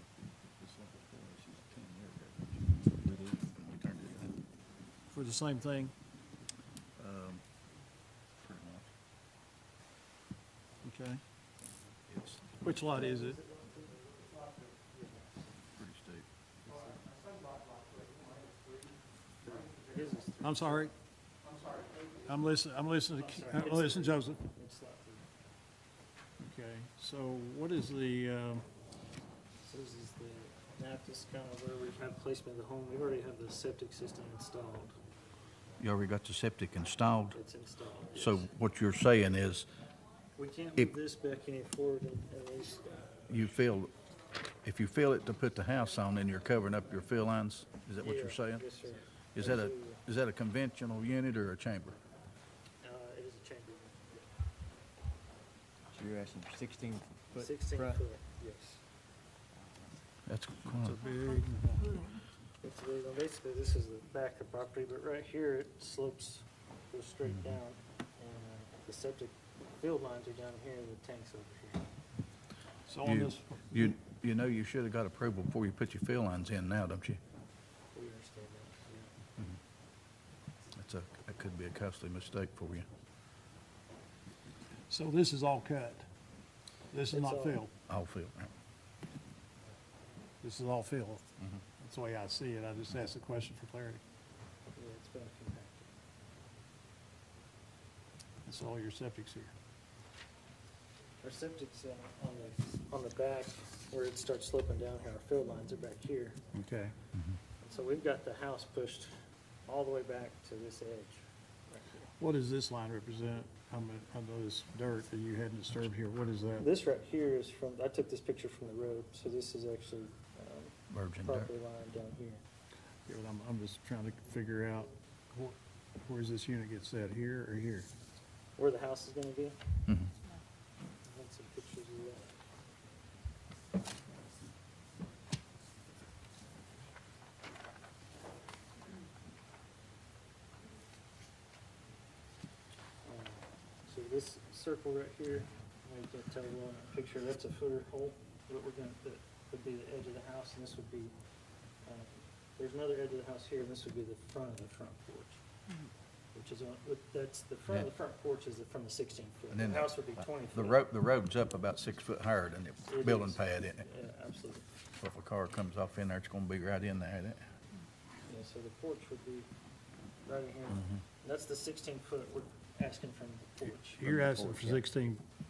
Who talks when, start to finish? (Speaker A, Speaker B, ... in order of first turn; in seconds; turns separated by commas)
Speaker A: 0.6-2.0, Speaker B: 0.7-2.6, Speaker A: 2.8-4.4, Speaker C: 5.1-5.9, Speaker A: 7.0-7.4, Speaker A: 8.4-8.9, Speaker C: 10.8-11.2, Speaker A: 12.1-12.5, Speaker C: 12.6-13.4, Speaker D: 12.9-15.2, Speaker A: 15.7-16.2, Speaker D: 19.4-20.9, Speaker C: 20.4-20.9, Speaker C: 22.2-24.4, Speaker D: 23.1-25.3, Speaker C: 26.4-28.6, Speaker D: 29.6-35.0, Speaker A: 35.8-37.4, Speaker D: 37.3-38.5, Speaker A: 38.1-39.7, Speaker D: 40.4-43.3, Speaker A: 43.3-43.9, Speaker A: 44.6-48.6, Speaker D: 48.0-50.0, Speaker A: 49.3-52.0, Speaker D: 52.8-54.2, Speaker B: 55.9-58.0, Speaker D: 57.4-58.8, Speaker A: 60.2-61.0, Speaker C: 60.8-62.0, Speaker D: 62.6-71.8, Speaker A: 67.2-67.6, Speaker C: 72.9-73.8, Speaker A: 73.0-77.2, Speaker D: 77.9-79.1, Speaker A: 80.8-82.9, Speaker C: 84.9-86.0, Speaker C: 86.9-87.7, Speaker D: 87.1-87.6, Speaker A: 87.9-88.5, Speaker C: 90.4-91.2, Speaker C: 91.8-94.0, Speaker D: 94.7-95.9, Speaker C: 98.5-99.5, Speaker D: 101.2-106.4, Speaker C: 106.5-106.9, Speaker D: 107.6-109.1, Speaker D: 109.7-111.9, Speaker C: 112.2-116.7, Speaker D: 116.6-122.4, Speaker A: 120.9-121.5, Speaker C: 123.0-127.9, Speaker D: 128.6-129.6, Speaker A: 129.9-130.1, Speaker D: 131.0-132.3, Speaker D: 143.0-151.1, Speaker D: 151.8-155.4, Speaker D: 156.3-160.8, Speaker A: 159.5-163.8, Speaker D: 162.9-164.6, Speaker A: 165.0-167.4, Speaker D: 168.2-169.5, Speaker D: 170.2-174.0, Speaker C: 174.0-175.2, Speaker B: 174.0-174.8